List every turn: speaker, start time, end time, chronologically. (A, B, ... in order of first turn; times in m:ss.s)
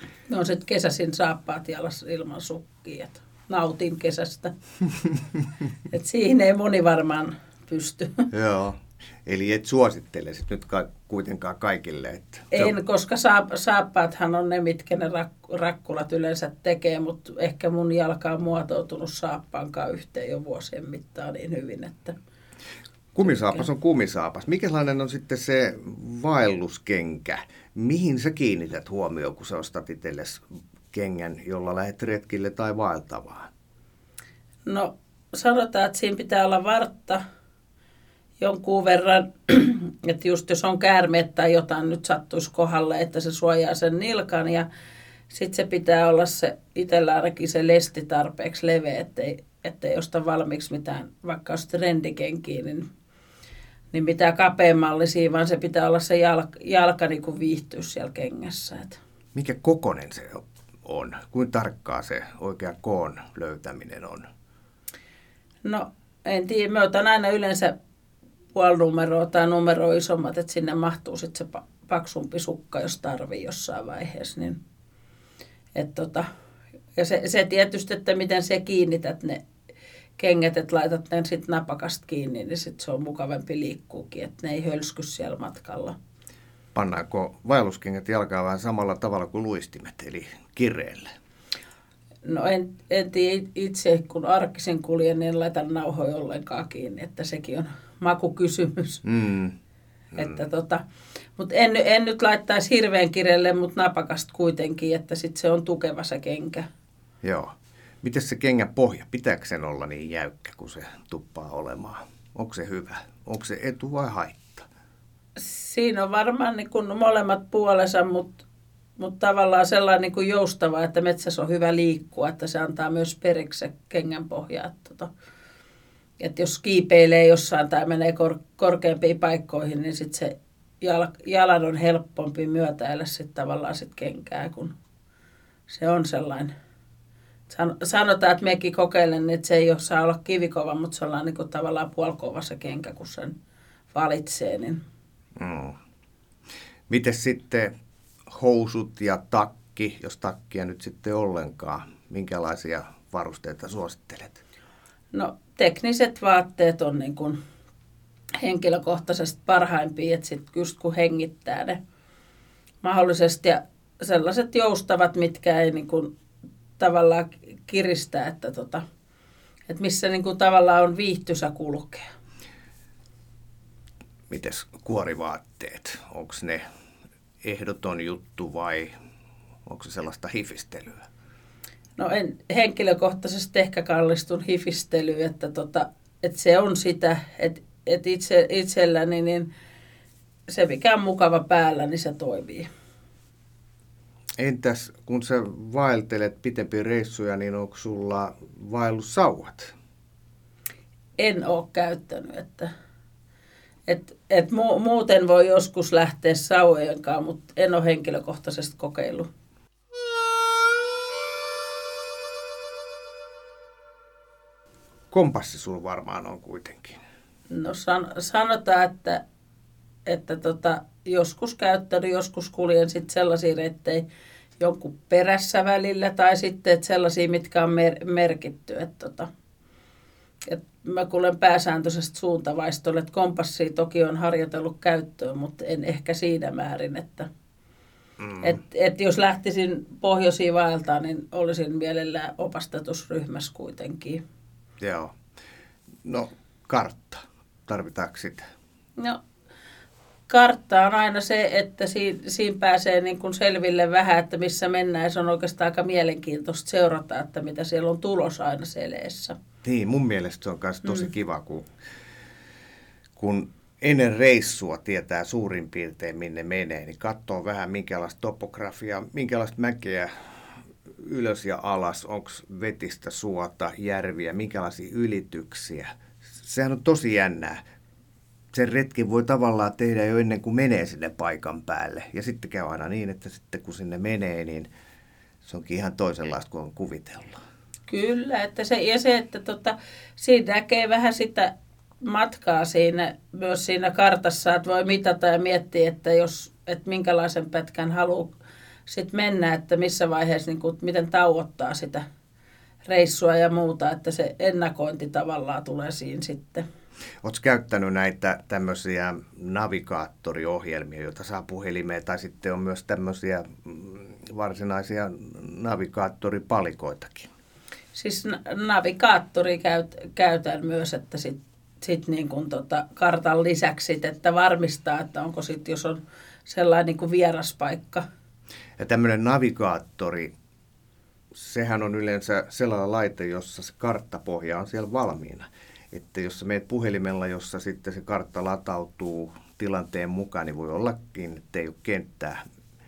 0:00.3-0:04.5 A
0:05.9-0:08.3 A
0:08.3-0:12.7 B
0:12.5-0:22.2 A
0:23.2-0:33.5 B
0:34.7-0:37.2 A
0:38.4-0:44.7 A
0:45.3-0:52.9 A
0:53.9-0:59.0 A
0:59.4-1:04.3 B
1:05.6-1:07.7 A
1:08.5-1:14.6 A
1:15.8-1:16.3 A
1:17.0-1:19.4 A
1:20.2-1:26.0 A
1:26.8-1:31.1 B
1:32.2-1:39.0 A
1:39.0-1:39.6 B
1:40.1-1:40.4 B
1:40.2-1:40.8 A
1:41.4-1:46.7 A
1:47.2-1:54.7 B
1:55.4-1:58.4 A
1:59.0-2:05.1 A
2:06.2-2:14.7 A
2:15.7-2:16.5 A
2:17.5-2:23.3 A
2:23.9-2:24.8 A
2:25.4-2:25.8 B
2:26.9-2:27.7 B
2:28.3-2:34.4 B
2:35.1-2:37.4 A
2:38.4-2:41.8 A
2:42.8-2:46.1 A
2:46.8-2:48.8 A
2:49.7-2:52.0 A
2:54.3-2:56.6 B
2:57.4-2:58.9 B
2:59.7-3:01.0 B
3:02.0-3:09.5 A
3:10.5-3:12.7 A
3:14.4-3:19.7 B
3:21.2-3:22.7 A
3:23.9-3:29.3 A
3:35.1-3:37.0 B
3:37.5-3:39.2 A
3:40.1-3:44.0 A
3:44.6-3:49.3 A
3:50.5-3:57.3 A
3:58.2-3:58.6 B
3:58.4-4:04.2 A
4:04.8-4:05.1 B
4:06.0-4:08.4 B
4:10.3-4:19.4 A
4:19.6-4:21.7 B
4:23.2-4:30.2 B
4:31.0-4:37.6 B
4:38.5-4:44.7 B
4:45.4-4:47.4 B
4:47.9-4:51.5 A
4:52.0-4:58.3 A
4:58.9-5:02.0 A
5:02.9-5:06.6 A
5:07.2-5:17.3 B
5:18.0-5:28.0 A
5:28.8-5:30.3 B
5:31.3-5:42.4 B